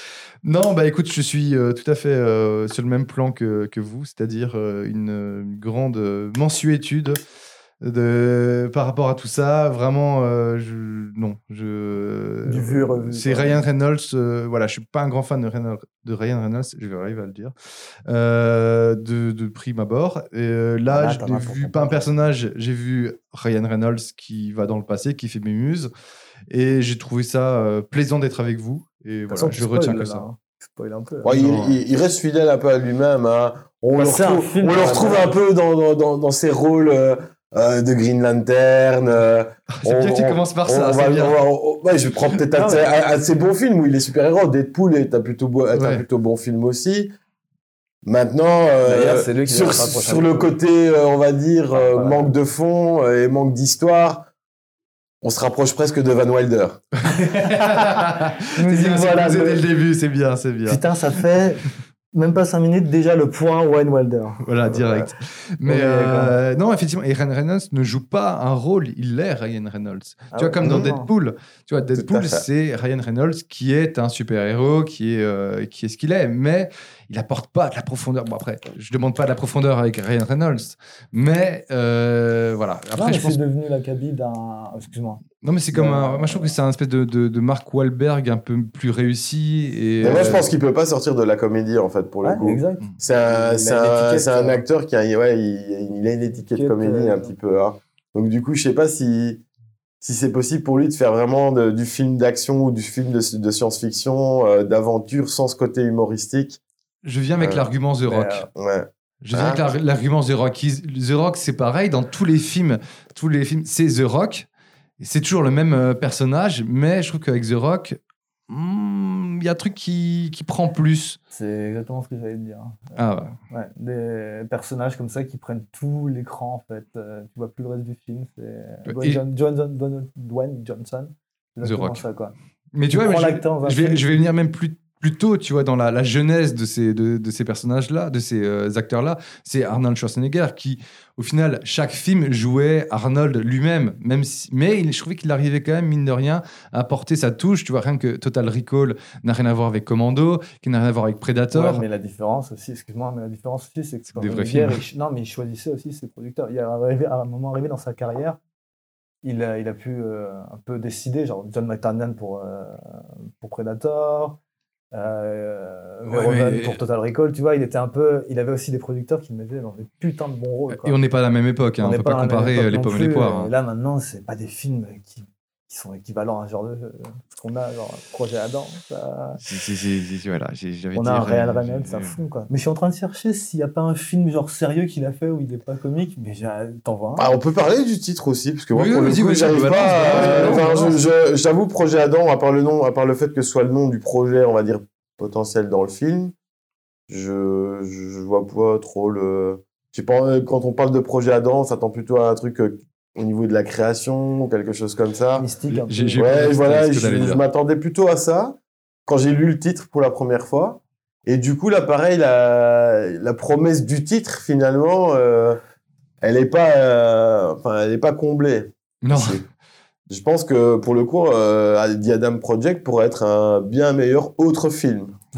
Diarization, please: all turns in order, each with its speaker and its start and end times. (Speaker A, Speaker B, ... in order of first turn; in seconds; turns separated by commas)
Speaker A: 0.4-7.2, Speaker A: 7.8-17.5, Speaker B: 12.4-13.6, Speaker A: 18.1-25.9, Speaker B: 20.9-22.0, Speaker A: 26.5-30.2, Speaker B: 29.3-31.3, Speaker C: 31.2-47.1, Speaker A: 31.3-31.8, Speaker B: 34.0-35.3, Speaker A: 39.8-41.4, Speaker A: 45.7-46.0, Speaker C: 48.0-54.3, Speaker B: 48.8-50.5, Speaker B: 51.7-52.3, Speaker C: 55.2-56.8, Speaker A: 57.0-60.8, Speaker B: 57.3-57.6, Speaker B: 58.5-59.6, Speaker B: 60.6-65.1, Speaker A: 64.4-83.4, Speaker B: 65.7-66.4, Speaker B: 70.3-71.1, Speaker C: 70.6-70.9, Speaker C: 72.0-72.4, Speaker B: 82.9-85.2, Speaker A: 85.4-90.5, Speaker B: 85.7-86.5, Speaker C: 90.0-99.4, Speaker B: 92.2-94.6, Speaker B: 96.5-97.3, Speaker C: 100.0-106.6, Speaker A: 107.0-108.5, Speaker C: 107.4-107.6, Speaker B: 108.0-108.5, Speaker C: 108.5-109.7, Speaker A: 109.2-114.5, Speaker A: 115.0-118.0, Speaker A: 118.5-121.2, Speaker B: 121.3-123.0, Speaker A: 123.0-123.3, Speaker B: 123.5-132.3, Speaker A: 128.8-129.2, Speaker A: 131.6-132.0, Speaker A: 132.7-151.8, Speaker B: 132.9-134.0, Speaker B: 151.5-158.4, Speaker A: 154.2-154.8, Speaker B: 159.2-162.8, Speaker B: 163.4-164.4, Speaker B: 164.9-171.0, Speaker A: 166.1-166.8, Speaker A: 170.7-173.5, Speaker B: 171.8-179.4, Speaker A: 179.4-182.2, Speaker B: 180.9-187.3, Speaker C: 187.2-196.3, Speaker A: 188.7-190.9, Speaker B: 189.9-190.9, Speaker C: 197.1-205.5, Speaker B: 205.3-206.2, Speaker A: 205.7-207.4, Speaker C: 206.2-215.6, Speaker C: 216.2-219.4, Speaker A: 219.0-219.4, Speaker C: 220.1-225.2